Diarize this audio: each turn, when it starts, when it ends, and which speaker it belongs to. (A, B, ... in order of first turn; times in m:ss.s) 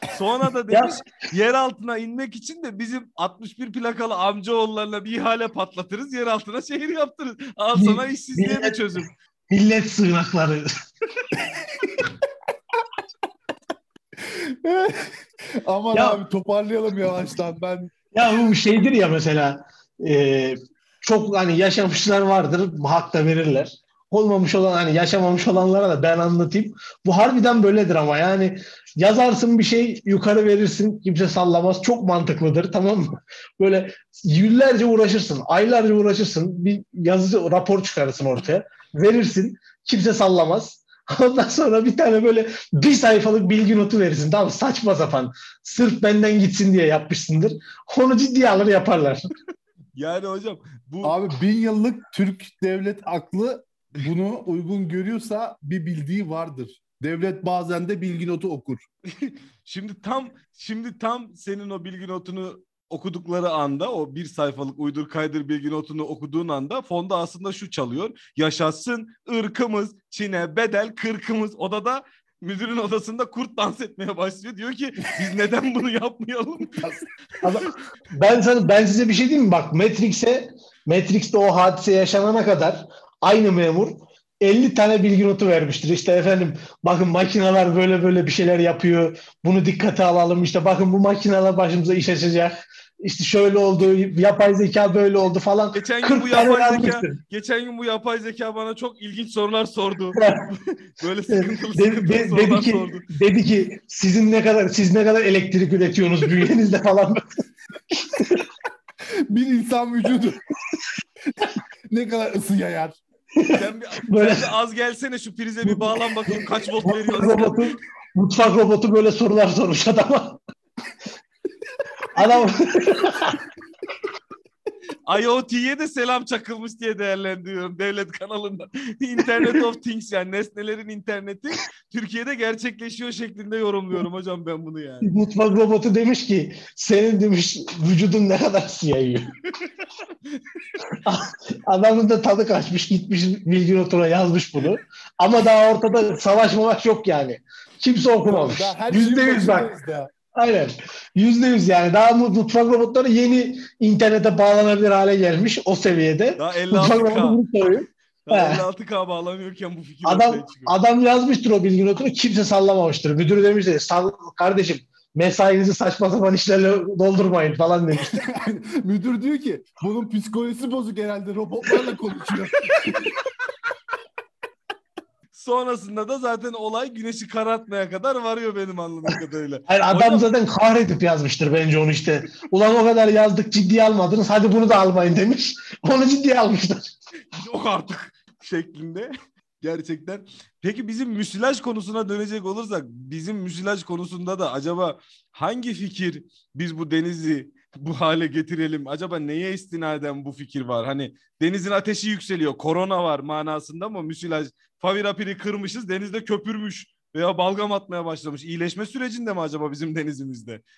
0:00.1-0:09.1 A
0:07.8-0:08.8 B
0:09.5-0:10.7 B
0:11.4-0:12.1 C
0:14.2-0:17.9 C
0:15.9-0:16.2 B
0:18.1-0:49.2 B
0:50.0-0:51.2 A
0:51.0-0:58.8 C
0:59.2-1:16.8 A
1:16.8-1:17.0 C
1:17.4-1:37.2 B
1:35.7-1:43.1 A
1:40.2-1:40.4 B
1:41.3-1:47.2 B
1:47.9-1:48.5 B
1:49.3-1:50.4 C
1:51.4-1:53.0 C
1:53.4-1:54.5 B
1:53.5-1:57.6 A
1:55.6-2:00.4 B
2:02.2-2:03.4 B
2:05.1-2:15.1 A
2:15.0-2:19.3 B
2:20.9-2:29.7 B
2:28.2-2:30.1 C
2:30.3-2:38.6 B
2:36.4-2:37.4 A
2:38.3-2:40.8 A
2:40.0-2:48.2 B
2:47.9-2:53.2 C
2:55.3-3:00.3 A
2:59.7-3:06.9 B
3:07.4-3:09.1 A
3:09.6-3:30.6 A